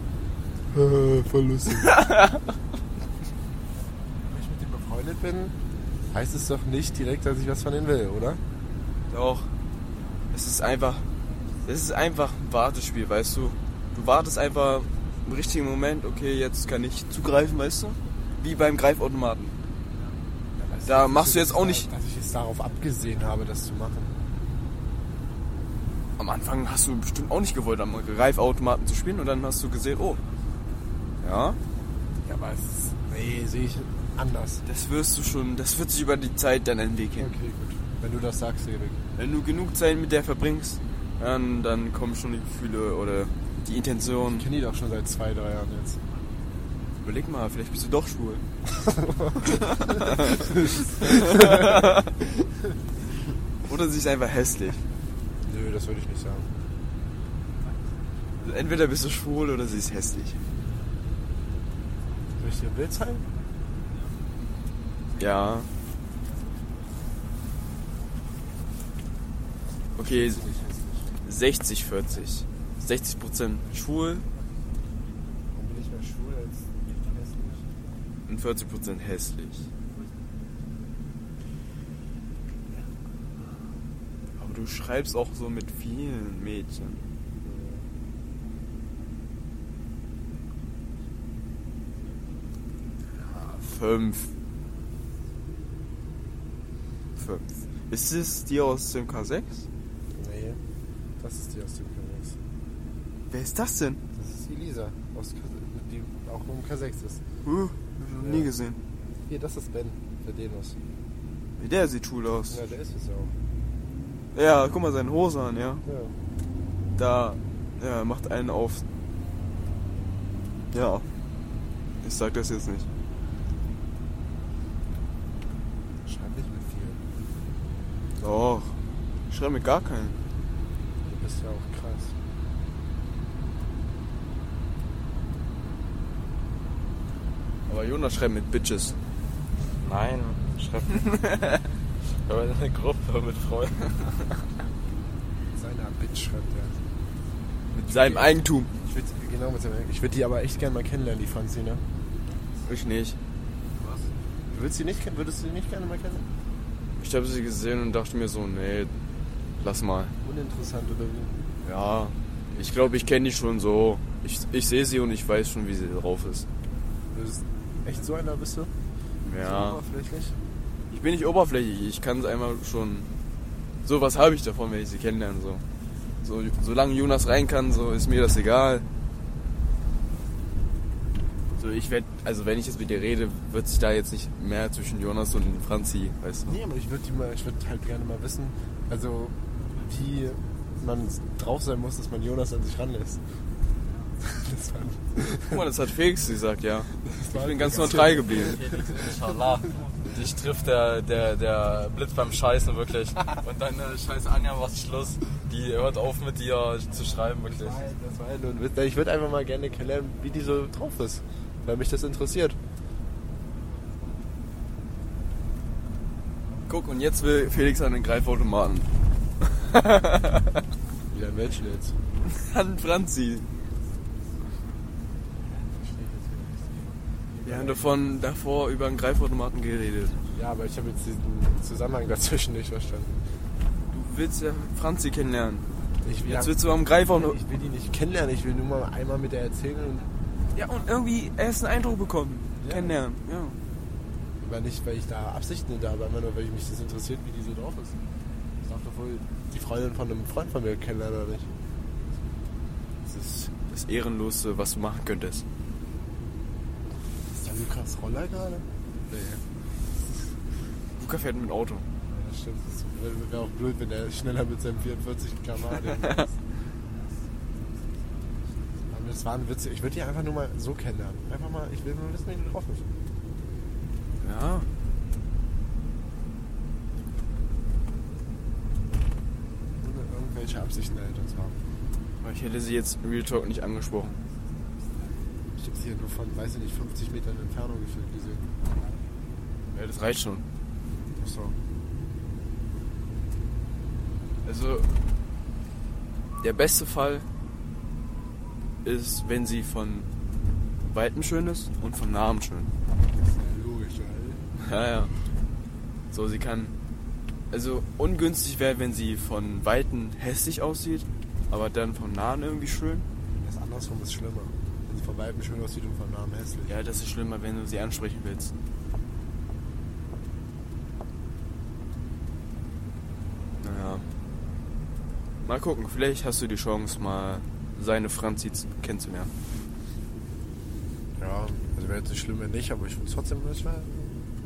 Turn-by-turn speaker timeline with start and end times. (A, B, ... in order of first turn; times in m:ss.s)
0:00.7-0:02.0 A
0:01.8-0:02.4 B
0:04.3-0:05.6 A
0:06.1-0:08.4 A
0:09.1-0:09.5 B
0:10.3-0:11.1 B
0:11.6-0:19.6 B
0:20.6-0:24.2 A
0:20.9-0:21.9 B
0:26.2-0:30.2 B
0:31.2-0:31.6 B
0:32.2-0:34.6 A
0:34.7-0:37.3 B
0:37.2-0:39.0 A
0:39.2-0:44.5 B
0:44.2-0:46.0 A
0:47.0-0:48.4 B
0:48.8-0:51.9 A
0:49.4-0:52.1 B
0:53.6-0:54.8 B
0:55.4-0:56.5 A
0:58.4-1:00.4 B
1:02.4-1:03.2 A
1:05.2-1:05.7 B
1:10.0-1:10.4 B
1:10.0-1:11.2 A
1:11.2-1:14.3 B
1:15.5-1:17.7 A
1:18.3-1:19.7 B
1:24.4-1:27.0 B
1:27.4-1:27.9 A
1:33.2-1:34.3 B
1:37.2-1:39.7 B
1:40.1-1:40.6 A
1:41.2-1:42.4 A
1:43.3-1:44.0 B
1:44.2-1:47.2 A
1:47.4-1:48.8 B
1:48.1-1:48.5 A
1:49.3-1:50.8 A
1:51.6-1:52.6 B
1:52.5-1:53.3 A
1:54.3-1:55.8 B
1:55.8-1:56.2 A
1:57.0-1:58.8 B
2:00.7-2:01.1 B
2:02.0-2:02.9 B
2:06.1-2:07.0 A
2:08.2-2:08.8 B
2:09.3-2:10.2 B
2:11.1-2:12.1 A
2:17.7-2:19.0 B
2:19.8-2:21.2 C
2:21.0-2:21.6 B
2:22.0-2:24.2 C
2:25.5-2:26.8 A
2:27.7-2:28.7 B
2:27.9-2:31.8 A
2:32.6-2:33.2 B
2:33.8-2:34.1 C
2:34.5-2:36.3 A
2:37.0-2:39.0 B
2:39.6-2:40.1 B
2:40.2-2:41.4 A
2:41.6-2:46.5 B
2:42.5-2:43.0 A
2:47.1-2:48.7 A
2:49.2-2:49.8 B
2:49.4-2:50.4 A
2:50.9-2:53.1 B
2:53.8-2:55.6 B
2:56.2-2:58.8 B
3:01.6-3:06.6 B
3:06.5-3:13.2 A
3:14.2-3:15.6 A
3:15.4-3:18.6 B
3:17.0-3:18.6 A
3:17.6-3:27.8 C
3:27.5-3:32.6 A
3:36.7-3:38.9 B
3:39.5-3:40.6 B
3:41.1-3:42.0 A
3:42.3-3:43.4 B
3:45.5-3:47.9 A
3:47.4-3:50.2 B
3:50.3-3:53.2 A
3:53.9-3:55.6 B
3:56.0-3:56.6 A
3:56.2-3:57.4 B
3:57.1-4:00.1 A
4:00.5-4:03.6 B
4:02.6-4:03.0 A
4:04.4-4:08.0 A
4:08.6-4:11.5 A
4:13.1-4:15.4 B
4:17.3-4:19.4 A
4:21.0-4:21.9 B
4:22.1-4:26.4 A
4:28.9-4:32.9 A
4:34.2-4:34.7 B
4:39.8-4:41.6 A
4:42.2-4:44.2 B
4:45.5-4:48.5 A
4:49.7-4:50.4 B
4:51.2-4:51.6 A
4:54.4-4:54.9 B
4:56.4-4:57.3 B
4:58.8-5:00.1 B
5:00.9-5:02.7 B
5:03.1-5:04.4 A
5:04.6-5:05.1 B
5:06.1-5:06.8 B
5:07.5-5:13.1 B
5:13.4-5:16.8 A
5:16.7-5:18.5 B
5:23.6-5:24.1 B
5:25.5-5:29.3 B
5:31.2-5:34.2 A